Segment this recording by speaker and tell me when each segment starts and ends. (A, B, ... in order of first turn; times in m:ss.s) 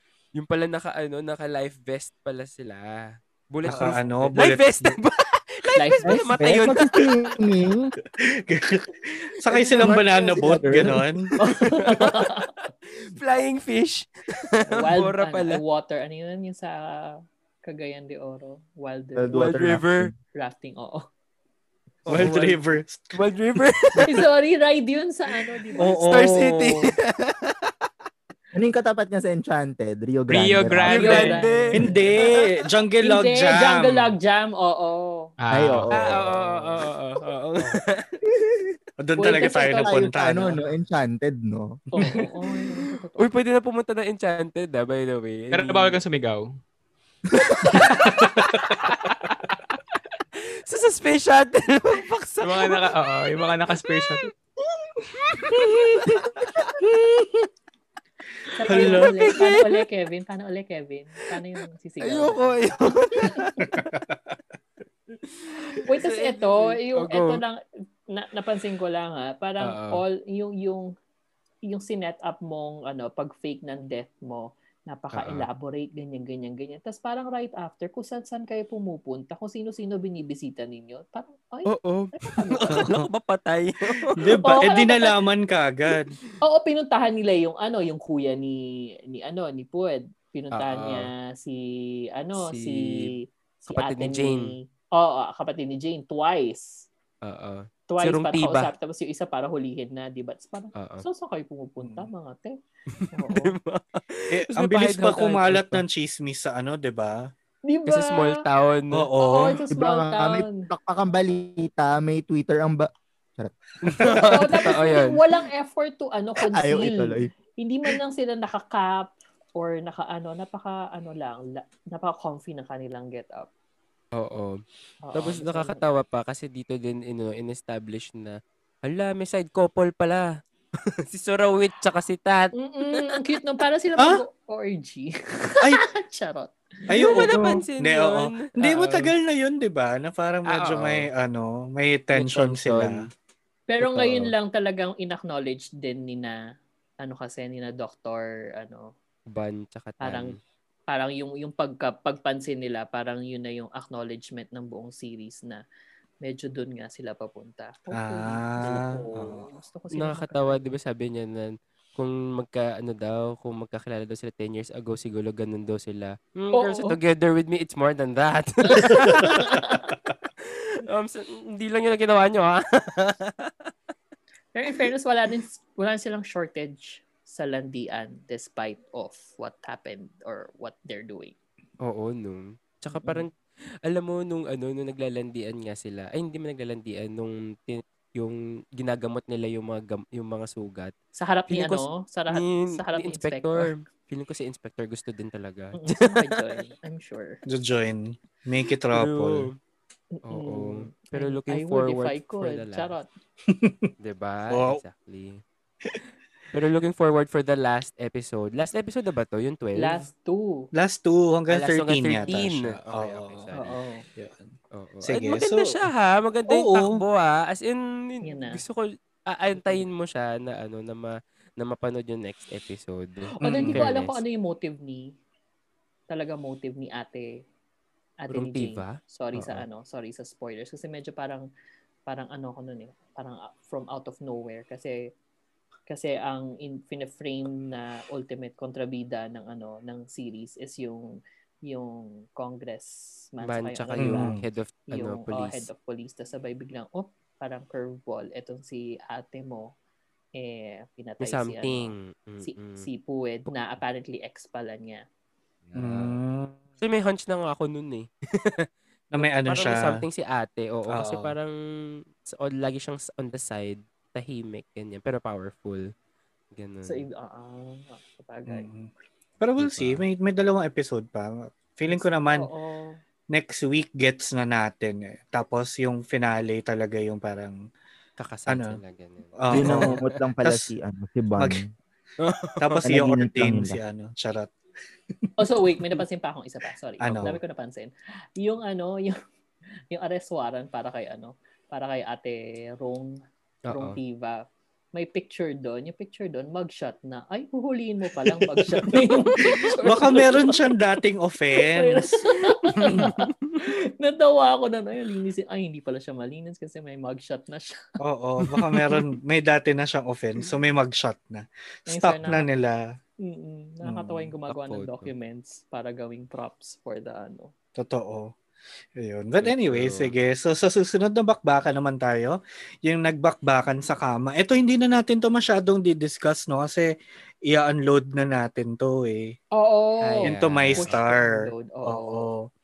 0:00.4-0:07.4 A
0:03.7-0:05.0 B
0:05.8-0:06.3 C
0:06.0-0:07.9 D
0:08.2-0:11.3 B
0:09.8-0:11.3 D
0:11.4-0:12.5 C
0:11.6-0:15.6 A
0:14.7-0:19.5 C
0:19.2-0:20.2 D
0:19.3-0:20.1 A
0:20.4-0:21.0 C
0:22.1-0:22.6 A
0:22.1-0:23.2 B
0:23.1-0:24.2 A
0:24.0-0:26.3 C
0:25.8-0:26.8 B
0:26.1-0:27.7 A
0:28.5-0:31.1 D
0:30.3-0:31.4 E
0:30.9-0:32.5 A
0:31.0-0:32.3 C
0:31.8-0:34.1 B
0:33.0-0:35.3 C
0:35.4-0:36.2 E
0:35.5-0:36.2 D
0:35.9-0:38.2 A
0:39.0-0:40.5 B
0:39.2-0:40.0 C
0:39.8-0:41.8 D
0:42.0-0:43.3 C
0:43.2-0:46.0 A
0:45.5-0:46.6 E
0:47.3-0:49.0 A
0:47.7-0:49.0 B
0:50.3-0:52.9 A
0:52.4-0:54.3 E
0:53.7-0:54.3 A
0:54.8-0:57.5 A
0:58.5-1:02.6 C
0:58.7-0:59.2 B
0:58.7-0:59.8 A
1:02.0-1:04.0 A
1:03.2-1:03.5 C
1:05.2-1:07.4 A
1:05.8-1:07.6 C
1:08.1-1:10.9 C
1:09.6-1:10.0 A
1:11.7-1:22.8 C
1:15.2-1:15.4 A
1:21.7-1:24.9 A
1:22.7-1:23.1 B
1:24.2-1:26.2 B
1:24.4-1:25.2 C
1:26.4-1:33.1 C
1:30.5-1:31.1 A
1:32.4-1:33.1 A
1:33.6-1:36.9 C
1:33.7-1:34.5 A
1:37.2-1:38.7 A
1:37.9-1:42.6 C
1:40.8-1:41.0 A
1:43.1-1:43.5 C
1:43.3-1:45.8 A
1:44.3-1:47.3 B
1:47.7-1:48.4 C
1:47.9-1:49.1 A
1:48.9-1:49.6 B
1:49.2-1:50.7 C
1:49.7-1:53.5 D
1:53.8-1:55.2 A
1:54.1-2:03.5 C
1:56.5-1:57.3 D
2:04.2-2:04.6 A
2:05.0-2:05.8 C
2:05.1-2:10.3 A
2:11.0-2:13.2 A
2:12.6-2:17.3 C
2:16.9-2:23.1 B
2:16.9-2:19.1 A
2:20.5-2:21.1 A
2:22.1-2:23.1 A
2:23.7-2:26.4 C
2:23.8-2:24.3 A
2:27.0-2:28.9 C
2:29.3-2:30.4 A
2:30.0-2:30.4 C
2:30.9-2:35.6 C
2:36.2-2:40.7 C
2:38.0-2:39.4 B
2:39.9-2:49.5 A
2:46.5-2:47.0 C
2:48.6-2:50.0 C
2:49.0-2:49.4 B
2:50.4-2:53.7 A
2:54.5-3:01.3 C
3:01.8-3:03.3 A
3:03.0-3:03.3 C
3:03.8-3:10.9 A
3:11.2-3:13.7 C
3:11.5-3:16.4 A
3:15.8-3:17.4 C
3:17.5-3:19.5 B
3:18.9-3:19.5 A
3:20.2-3:23.1 C
3:20.3-3:23.0 A
3:23.5-3:23.9 B
3:24.0-3:25.4 A
3:24.5-3:24.8 B
3:26.5-3:30.1 A
3:29.8-3:30.7 C
3:30.8-3:34.5 B
3:31.5-3:33.7 A
3:33.6-3:34.1 C
3:34.7-3:44.2 A
3:35.0-3:35.8 B
3:36.5-3:37.0 B
3:38.2-3:38.6 C
3:39.6-3:39.8 C
3:43.4-3:45.2 C
3:43.4-3:43.9 B
3:46.1-3:47.4 C
3:48.2-3:51.5 C
3:48.3-3:49.6 A
3:52.1-3:55.1 C
3:55.9-4:04.3 C
4:03.4-4:05.7 A
4:04.0-4:04.4 B
4:04.9-4:09.7 C
4:10.4-4:15.0 C
4:11.2-4:12.8 A
4:15.7-4:16.2 A
4:15.8-4:16.6 B
4:16.8-4:21.5 A
4:19.1-4:20.0 B
4:20.9-4:21.3 B
4:22.2-4:25.9 A
4:26.6-4:27.0 A
4:26.8-4:28.6 C
4:28.5-4:32.5 B
4:29.6-4:30.0 A
4:31.9-4:33.0 C
4:33.3-4:37.6 B
4:38.2-4:40.1 A
4:38.5-4:38.8 B
4:39.4-4:39.9 B
4:39.5-4:41.6 D
4:40.4-4:40.7 B
4:42.2-4:42.8 A
4:42.6-4:44.5 B
4:42.8-4:43.8 D
4:45.4-4:49.1 C
4:47.0-4:47.4 B
4:49.9-4:53.2 C
4:53.7-4:54.0 A
4:53.7-4:54.4 C
4:54.9-5:00.7 C
4:58.9-5:02.2 B
5:01.6-5:07.8 C
5:02.8-5:03.6 A
5:08.0-5:12.8 B
5:08.8-5:09.0 A
5:11.9-5:12.5 C
5:13.2-5:17.5 C
5:13.8-5:14.3 B
5:14.5-5:15.1 A
5:17.8-5:18.3 B
5:19.0-5:26.9 B
5:19.4-5:20.1 A
5:27.5-5:29.3 B
5:29.6-5:32.3 C
5:30.0-5:31.0 A
5:30.2-5:32.5 B